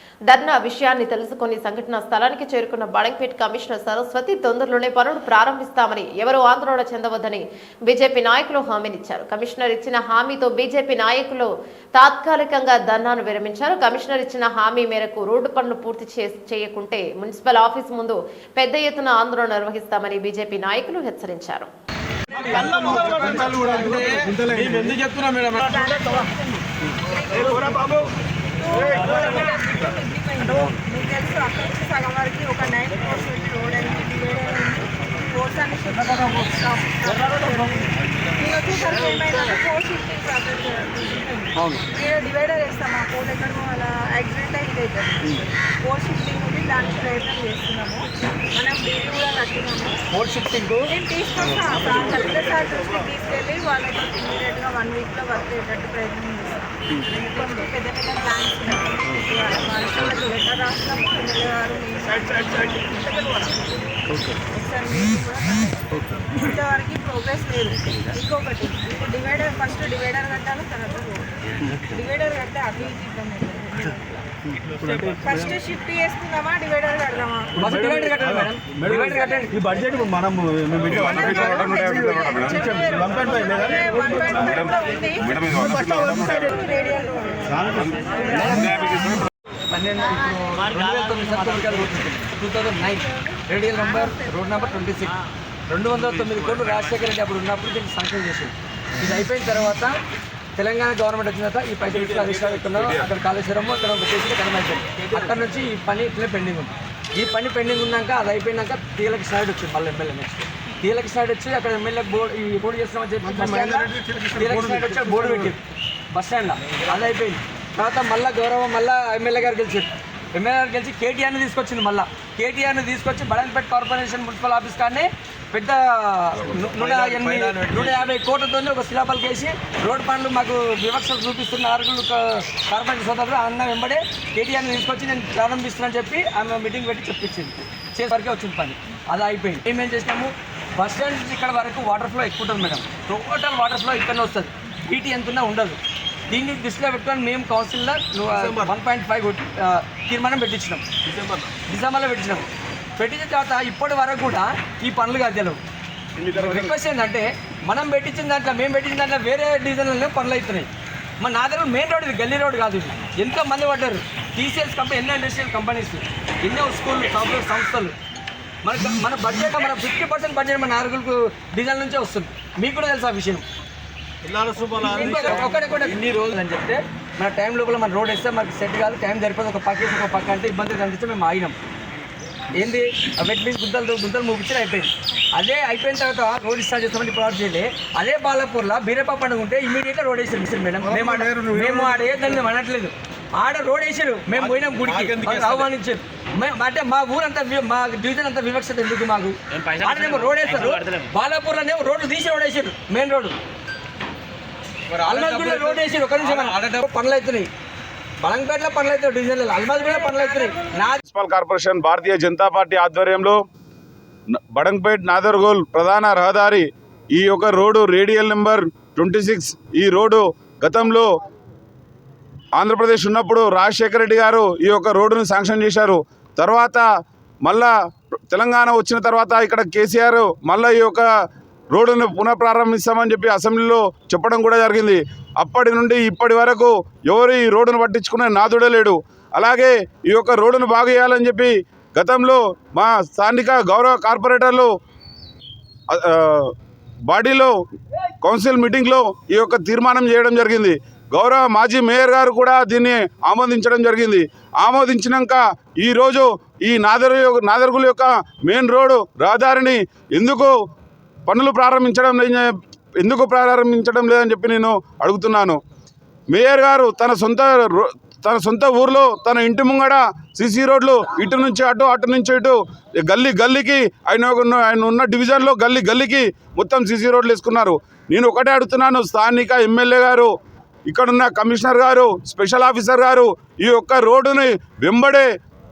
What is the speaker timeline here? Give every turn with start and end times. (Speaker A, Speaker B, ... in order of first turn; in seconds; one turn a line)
Speaker A: 0.3-21.7
Speaker B: 22.5-24.0
Speaker C: 22.6-25.6
Speaker B: 25.6-28.0
Speaker B: 28.6-50.0
Speaker D: 50.1-50.9
Speaker B: 50.9-63.6
Speaker B: 64.4-74.0
Speaker C: 74.8-75.2
Speaker B: 75.1-77.7
Speaker D: 77.5-79.7
Speaker B: 79.1-79.4
Speaker C: 79.7-81.1
Speaker E: 80.8-82.7
Speaker B: 81.6-85.3
Speaker C: 82.8-83.2
Speaker E: 84.5-86.5
Speaker B: 86.1-88.1
Speaker D: 88.2-95.2
Speaker D: 95.7-99.9
Speaker D: 100.6-115.6
Speaker D: 116.1-145.8
Speaker D: 146.3-150.8
Speaker D: 151.7-152.4
Speaker D: 153.0-155.6
Speaker D: 156.2-160.7
Speaker D: 161.2-167.9
Speaker D: 168.6-173.4
Speaker C: 174.3-175.2
Speaker D: 174.7-181.6
Speaker D: 182.5-203.4
Speaker D: 204.9-207.5
Speaker D: 208.2-211.0
Speaker E: 211.0-213.4
Speaker E: 214.5-221.1
Speaker E: 222.6-226.9
Speaker E: 227.4-227.7
Speaker E: 228.3-231.1
Speaker E: 231.7-244.7
Speaker E: 245.9-246.5
Speaker E: 247.1-247.6
Speaker E: 248.2-260.5
Speaker E: 261.3-265.6
Speaker E: 266.3-280.3
Speaker E: 280.9-285.3